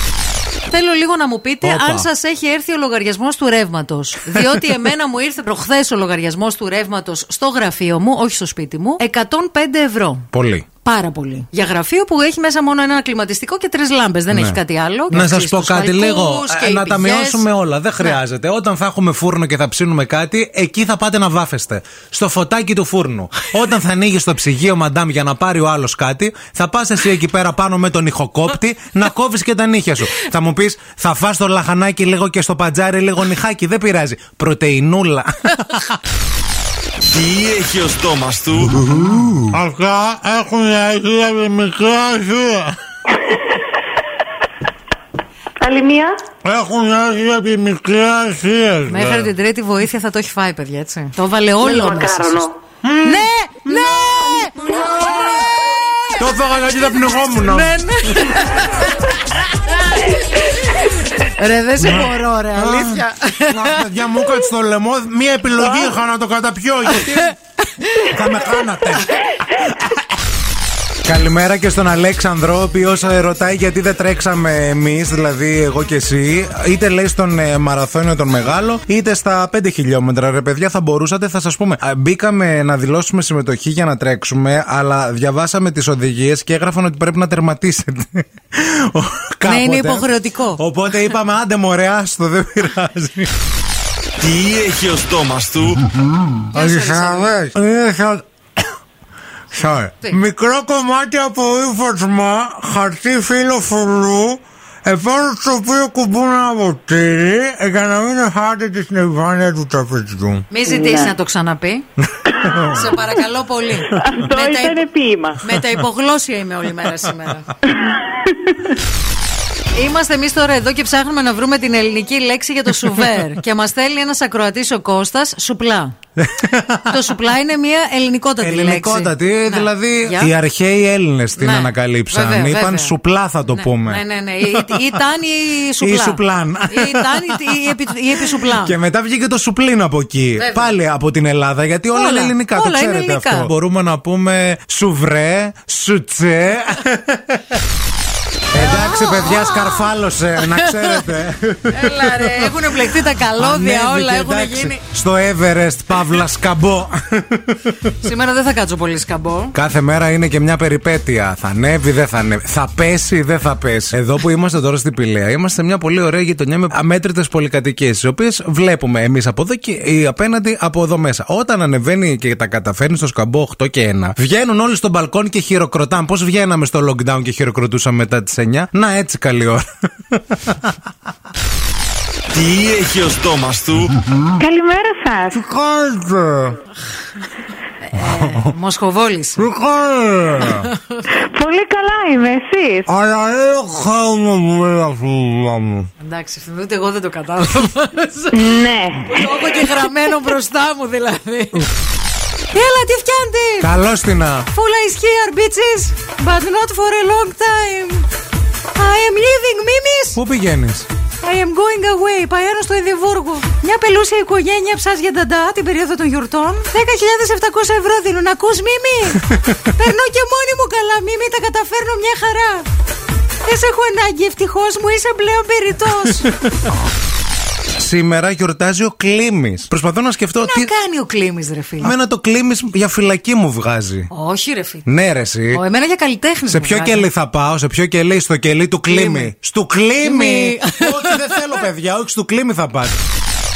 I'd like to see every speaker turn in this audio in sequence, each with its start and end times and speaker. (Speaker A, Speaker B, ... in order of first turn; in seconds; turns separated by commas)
Speaker A: 0.7-10.3, Speaker B: 1.6-2.1, Speaker B: 10.3-10.7, Speaker A: 10.8-17.5, Speaker B: 14.3-36.0, Speaker C: 37.1-38.7, Speaker D: 39.1-42.8, Speaker E: 45.6-46.1, Speaker D: 46.4-49.3, Speaker A: 48.9-52.4, Speaker E: 51.6-52.5, Speaker D: 52.9-55.2, Speaker A: 53.0-54.8, Speaker B: 56.1-57.8, Speaker A: 57.4-60.2, Speaker A: 60.7-63.8, Speaker D: 62.5-64.4, Speaker B: 63.6-67.3, Speaker D: 65.7-66.0, Speaker A: 66.9-68.1, Speaker B: 68.0-69.6, Speaker B: 71.0-93.3, Speaker A: 89.5-90.6, Speaker C: 94.2-95.8, Speaker A: 96.5-97.3, Speaker D: 96.5-98.2, Speaker B: 99.5-99.9, Speaker D: 100.0-110.4, Speaker A: 110.5-111.9, Speaker E: 110.7-111.1, Speaker A: 112.6-114.8, Speaker E: 114.0-115.4, Speaker A: 115.4-117.5, Speaker A: 119.8-126.0, Speaker B: 126.2-127.0, Speaker A: 126.9-130.3, Speaker B: 128.4-135.0, Speaker A: 131.4-132.9, Speaker A: 133.5-138.8, Speaker B: 135.8-147.6, Speaker A: 140.4-140.7, Speaker A: 141.9-143.5, Speaker B: 148.5-157.9, Speaker A: 148.6-149.9, Speaker A: 150.4-151.0, Speaker A: 151.7-154.8, Speaker A: 158.0-159.6, Speaker B: 159.5-180.7, Speaker C: 182.3-183.9, Speaker E: 184.4-185.4, Speaker D: 185.3-186.6, Speaker A: 187.9-189.5, Speaker B: 188.0-188.4, Speaker D: 189.4-190.7, Speaker E: 191.3-192.8, Speaker D: 192.9-195.9, Speaker A: 196.0-201.7, Speaker E: 198.3-199.1, Speaker A: 202.5-203.7, Speaker B: 203.6-204.5, Speaker A: 204.5-208.1, Speaker A: 208.8-210.2, Speaker B: 210.2-210.9, Speaker A: 211.2-222.7, Speaker B: 219.3-219.6, Speaker A: 223.4-226.3, Speaker B: 226.0-226.3, Speaker B: 227.8-230.7, Speaker A: 230.4-231.9, Speaker B: 231.8-234.1, Speaker A: 234.1-234.9, Speaker B: 234.8-235.6, Speaker A: 235.5-237.1, Speaker B: 236.5-242.9, Speaker A: 238.9-239.3, Speaker A: 240.0-241.5